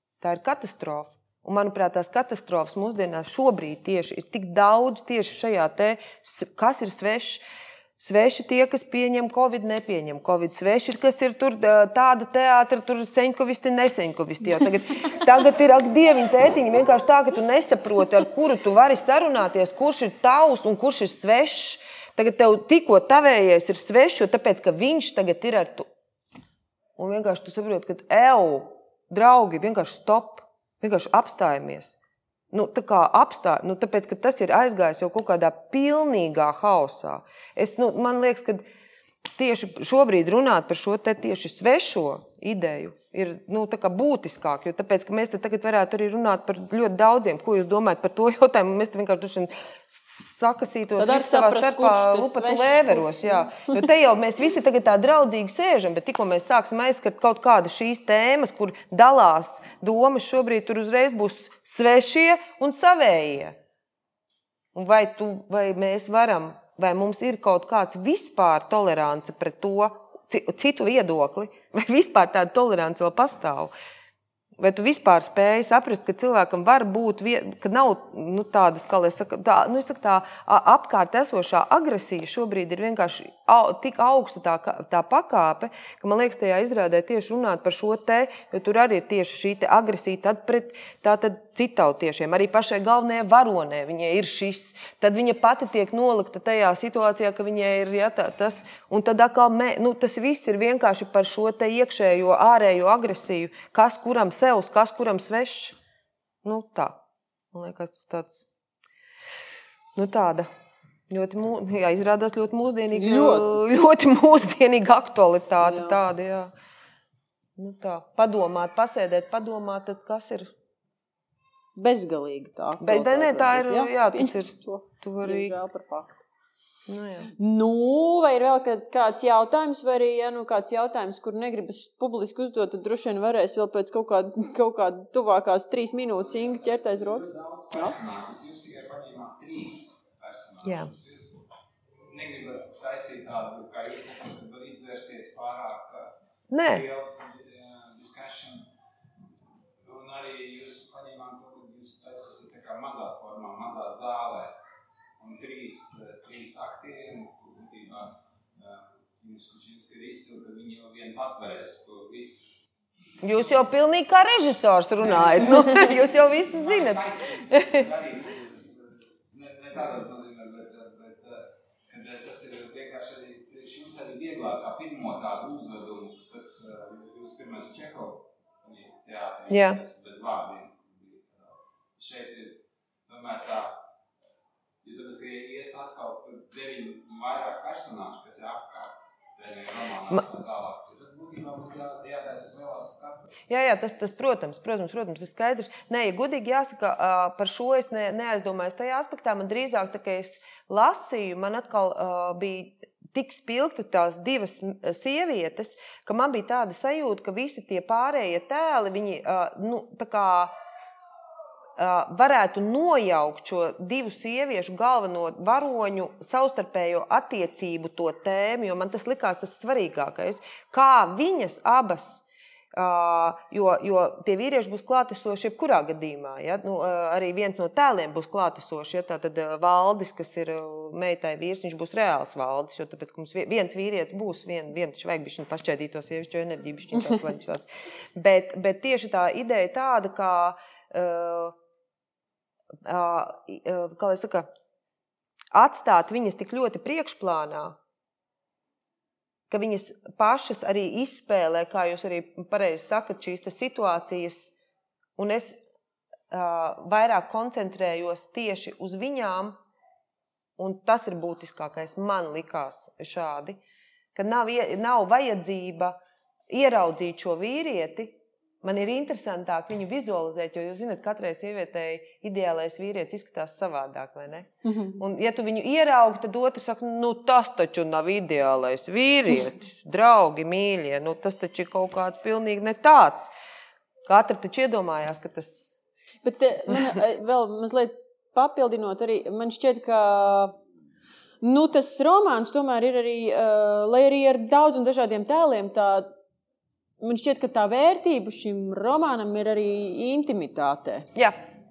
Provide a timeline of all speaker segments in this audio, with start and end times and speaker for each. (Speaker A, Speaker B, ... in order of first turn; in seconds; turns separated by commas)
Speaker A: 0.2-7.4, Speaker A: 8.0-25.9, Speaker A: 27.0-32.0, Speaker A: 32.5-38.6, Speaker A: 39.3-63.6, Speaker B: 51.0-53.8, Speaker A: 64.7-73.7, Speaker A: 74.6-105.8, Speaker A: 106.4-107.0, Speaker A: 107.5-108.5, Speaker A: 109.9-110.5, Speaker A: 111.1-116.5, Speaker B: 112.9-113.5, Speaker B: 115.6-116.0, Speaker A: 117.6-120.5, Speaker B: 121.8-126.2, Speaker A: 122.8-125.6, Speaker A: 126.9-127.3, Speaker B: 127.3-138.0, Speaker C: 136.2-141.4, Speaker A: 140.6-140.9, Speaker C: 142.1-148.7, Speaker A: 146.5-146.8, Speaker C: 149.8-154.5, Speaker C: 155.2-162.6, Speaker A: 163.2-167.9, Speaker C: 165.2-183.8, Speaker A: 179.5-179.8, Speaker C: 184.8-193.3, Speaker A: 193.5-210.5, Speaker A: 211.8-241.5, Speaker A: 242.8-244.5, Speaker A: 245.5-247.8, Speaker A: 249.5-254.5, Speaker A: 255.2-255.6, Speaker A: 256.3-259.6, Speaker A: 260.6-263.6, Speaker A: 264.1-266.0, Speaker A: 266.5-283.3, Speaker B: 274.6-275.0, Speaker A: 284.1-285.8, Speaker B: 286.2-290.6, Speaker B: 291.4-296.1, Speaker B: 297.0-301.1